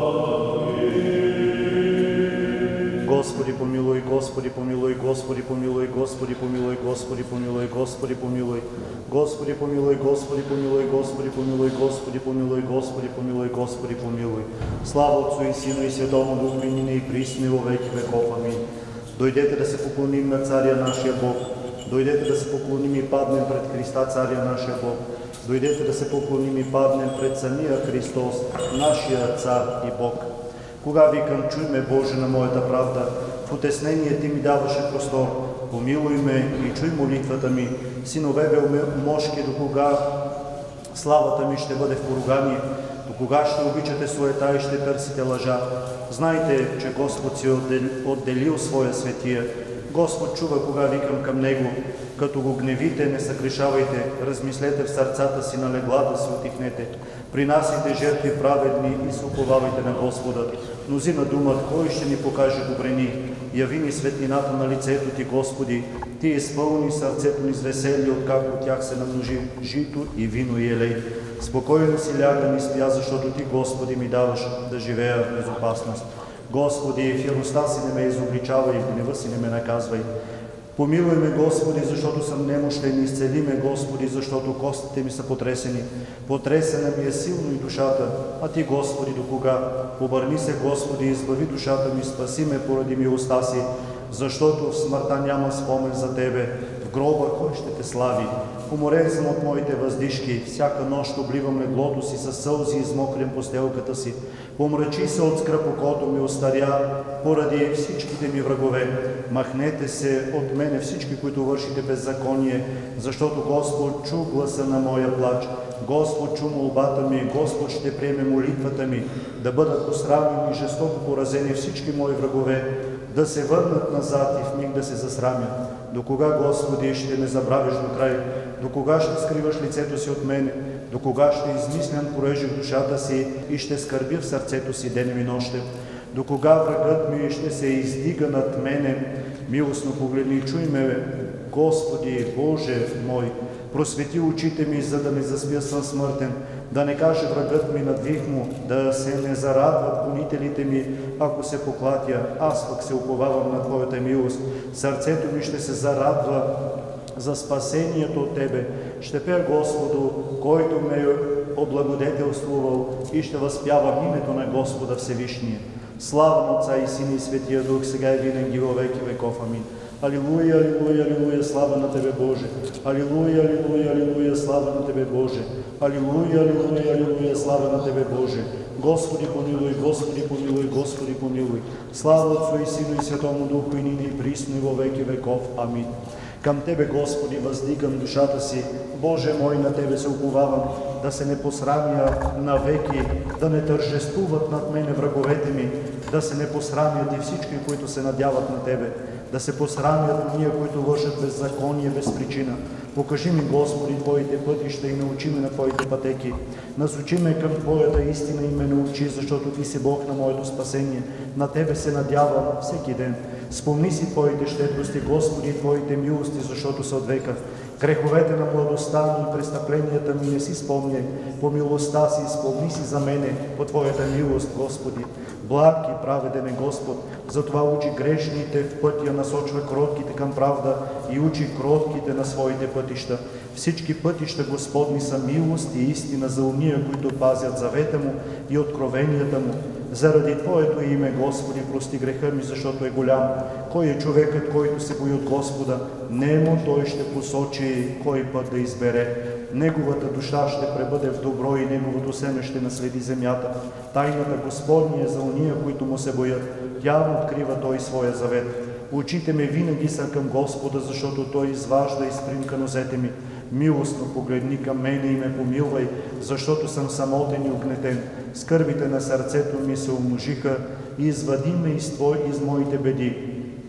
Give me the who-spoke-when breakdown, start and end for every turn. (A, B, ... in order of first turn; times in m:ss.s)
0:03.0-0:30.3 A
0:30.8-0:40.0 A
0:40.9-1:20.1 A
1:20.8-2:36.5 A
2:37.2-4:33.2 A